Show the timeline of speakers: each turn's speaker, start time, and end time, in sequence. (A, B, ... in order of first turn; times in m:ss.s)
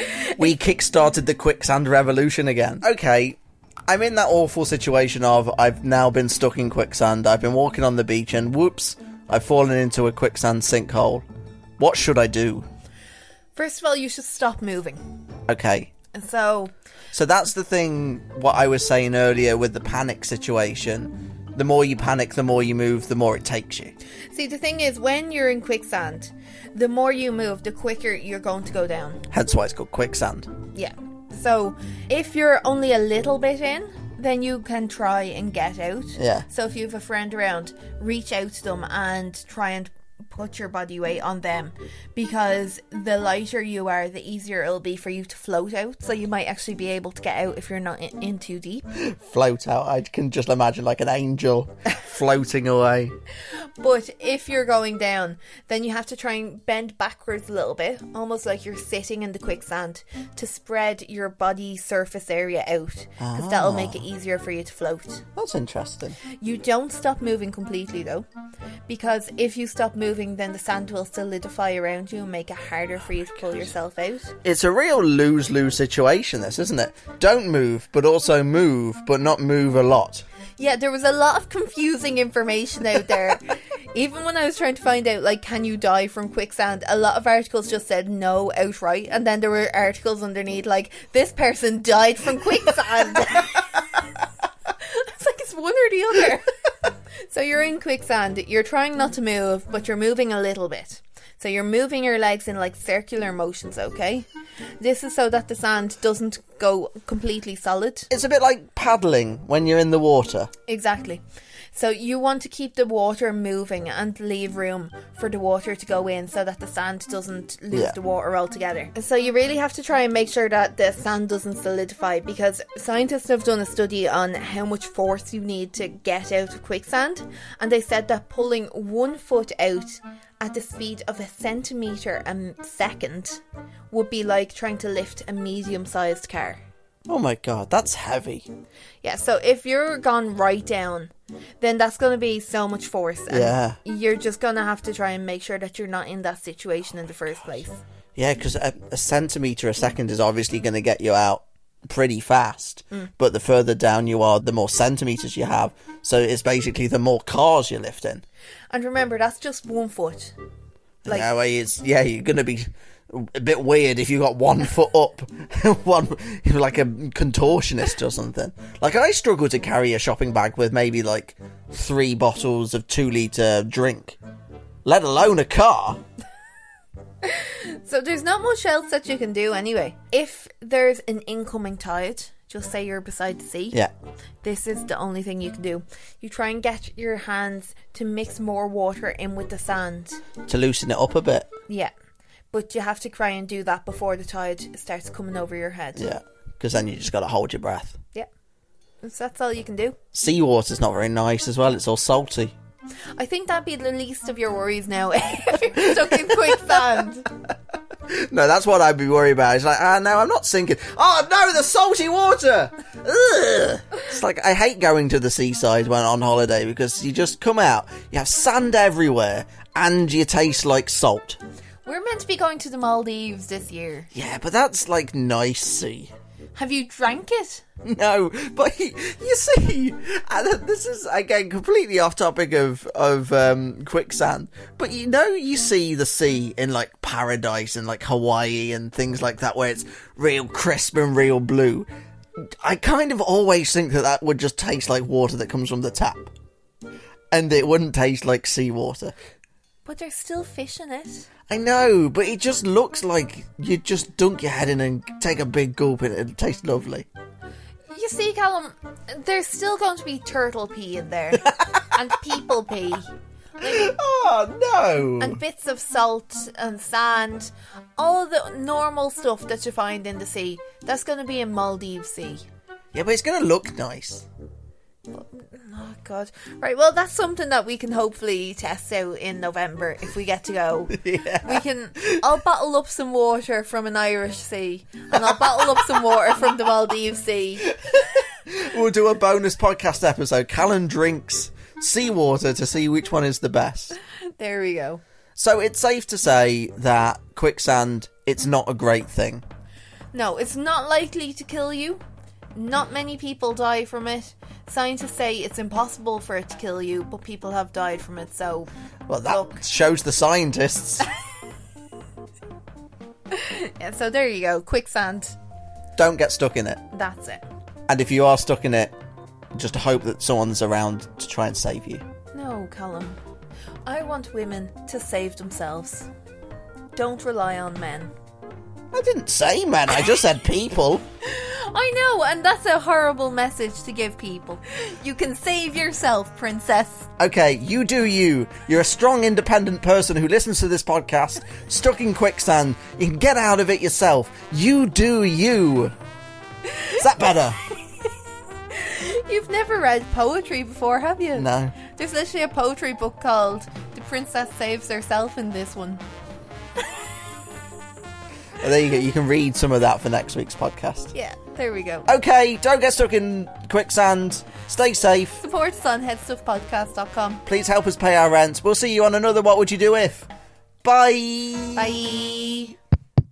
0:00.4-0:11.2 A
0:11.8-0:12.6 A
0:13.6-0:15.1 B
0:15.5-0:15.9 A
0:16.1-0:16.7 B
0:17.1-0:23.9 A
0:24.3-0:29.2 B
0:29.3-0:30.5 A
0:30.7-0:48.8 B
0:36.2-0:36.4 A
0:48.9-0:53.1 A
0:53.5-1:05.2 B
1:03.2-1:04.0 A
1:05.4-1:06.2 A
1:06.4-1:08.3 B
1:08.9-1:14.4 B
1:14.4-1:20.2 A
1:20.6-1:33.8 B
1:34.8-1:36.4 B
1:37.2-1:44.3 B
1:44.8-1:48.1 B
1:48.1-1:50.5 A
1:50.7-2:16.6 B
2:17.1-2:18.5 A
2:19.0-2:27.8 B
2:23.3-2:23.8 A
2:28.2-2:38.2 A
2:38.7-2:40.3 B
2:41.0-2:54.2 A
2:54.8-2:56.0 A
2:57.2-3:03.8 B
3:04.4-3:10.2 B
3:10.4-3:11.5 A
3:12.5-3:16.0 B
3:16.0-3:18.0 A
3:19.0-3:20.0 B
3:20.1-3:22.5 A
3:23.2-3:27.3 B
3:28.1-3:41.4 A
3:41.8-3:44.1 B
3:44.1-3:46.1 A
3:46.5-3:47.6 B
3:47.8-4:06.3 A
4:07.3-4:09.1 A
4:09.8-4:11.3 B
4:11.5-4:17.1 A
4:17.9-4:23.9 B
4:23.6-4:25.4 A
4:25.2-4:32.4 B
4:32.9-4:34.2 A
4:35.1-4:47.7 B
4:40.9-4:42.2 A
4:45.1-4:45.9 A
4:47.7-4:54.0 A
4:54.4-4:55.0 B
4:55.4-4:59.4 A
5:00.1-5:02.0 B
5:02.5-5:08.7 B
5:09.1-5:11.0 A
5:09.2-5:09.6 B
5:13.3-5:15.4 B
5:16.0-5:16.8 A
5:16.9-5:17.4 B
5:17.9-5:19.0 A
5:19.5-5:22.0 A
5:22.3-5:23.2 B
5:23.8-5:26.1 B
5:26.9-5:28.1 B
5:28.9-5:31.0 A
5:31.2-5:37.1 B
5:37.2-5:45.9 A
5:46.9-5:47.6 A
5:48.7-5:56.0 B
5:51.3-5:51.7 A
5:58.6-6:01.1 A
6:01.1-6:02.1 B
6:02.1-6:05.4 A
6:05.4-6:07.4 B
6:07.4-6:10.3 A
6:10.8-6:11.9 A
6:11.8-6:12.7 B